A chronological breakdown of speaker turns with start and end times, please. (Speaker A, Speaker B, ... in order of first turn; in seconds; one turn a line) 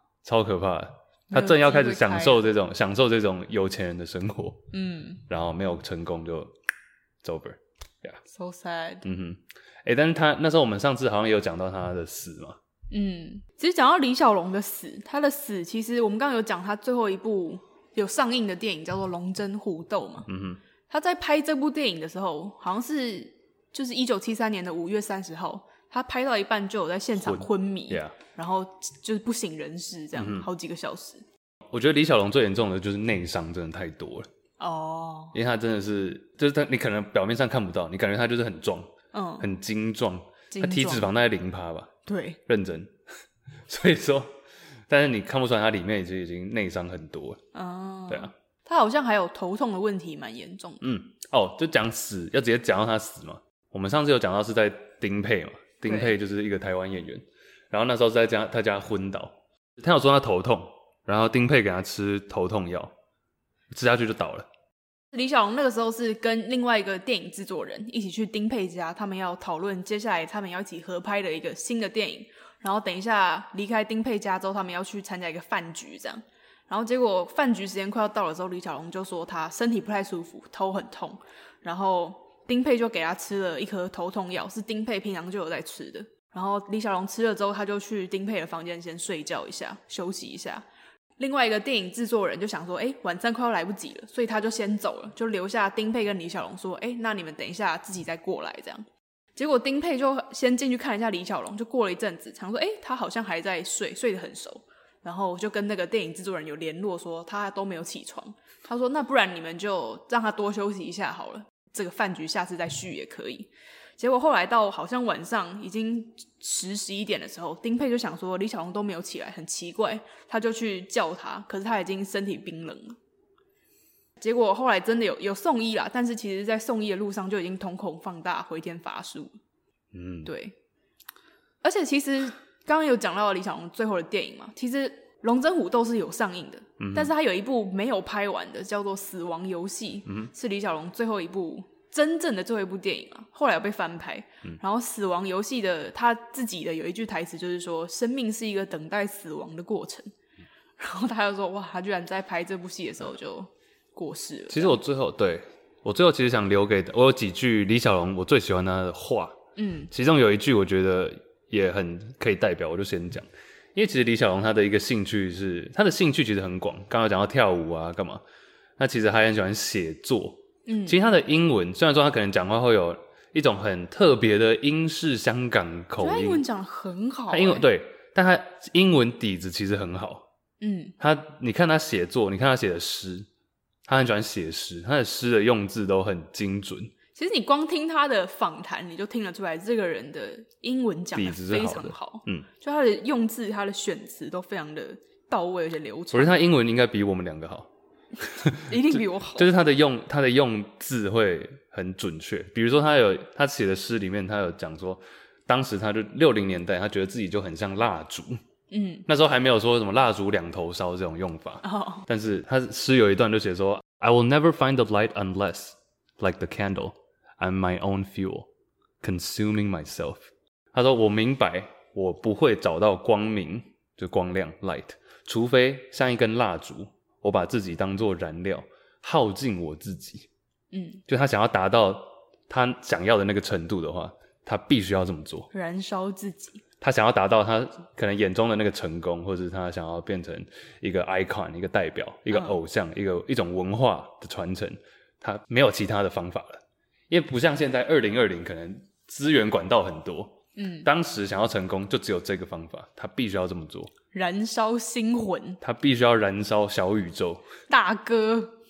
Speaker A: 0.2-4.7
Speaker B: 1.3-2.5
Speaker B: 4.7-5.2
Speaker A: 5.3-6.5
Speaker A: 7.2-8.2
Speaker B: 8.3-9.0
Speaker A: 9.0-12.6
Speaker B: 12.9-20.3
Speaker A: 20.3-20.6
Speaker B: 20.9-31.2
Speaker A: 27.2-28.2
Speaker A: 30.1-30.5
Speaker A: 31.7-34.3
Speaker B: 34.6-35.4
Speaker A: 35.3-41.9
Speaker B: 39.1-39.5
Speaker B: 40.5-41.1
Speaker B: 42.1-42.4
Speaker A: 42.5-43.0
Speaker A: 43.7-44.3
Speaker A: 44.9-47.4
Speaker B: 47.5-50.8
Speaker A: 50.8-62.9
Speaker B: 55.9-56.1
Speaker A: 63.7-64.5
Speaker B: 65.1-90.7
Speaker B: 91.2-123.0
Speaker B: 124.2-129.3
Speaker A: 129.9-130.3
Speaker B: 130.2-130.6
Speaker B: 131.6-150.1
Speaker A: 136.8-137.1
Speaker B: 150.8-154.8
Speaker A: 154.5-159.4
Speaker B: 159.6-159.9
Speaker A: 159.9-168.2
Speaker A: 168.8-176.4
Speaker B: 170.7-171.0
Speaker B: 176.0-177.7
Speaker A: 177.3-180.2
Speaker B: 180.6-181.0
Speaker A: 181.0-183.3
Speaker A: 183.9-186.9
Speaker B: 187.2-196.4
Speaker A: 191.1-192.5
Speaker A: 196.1-197.7
Speaker A: 198.2-208.4
Speaker B: 198.7-199.5
Speaker B: 208.7-209.1
Speaker A: 209.1-218.5
Speaker B: 211.6-212.1
Speaker A: 219.0-230.3
Speaker B: 230.7-231.0
Speaker A: 231.1-235.5
Speaker B: 235.5-236.6
Speaker A: 236.8-253.9
Speaker B: 250.6-250.9
Speaker B: 254.1-255.6
Speaker A: 255.6-257.4
Speaker B: 257.7-258.6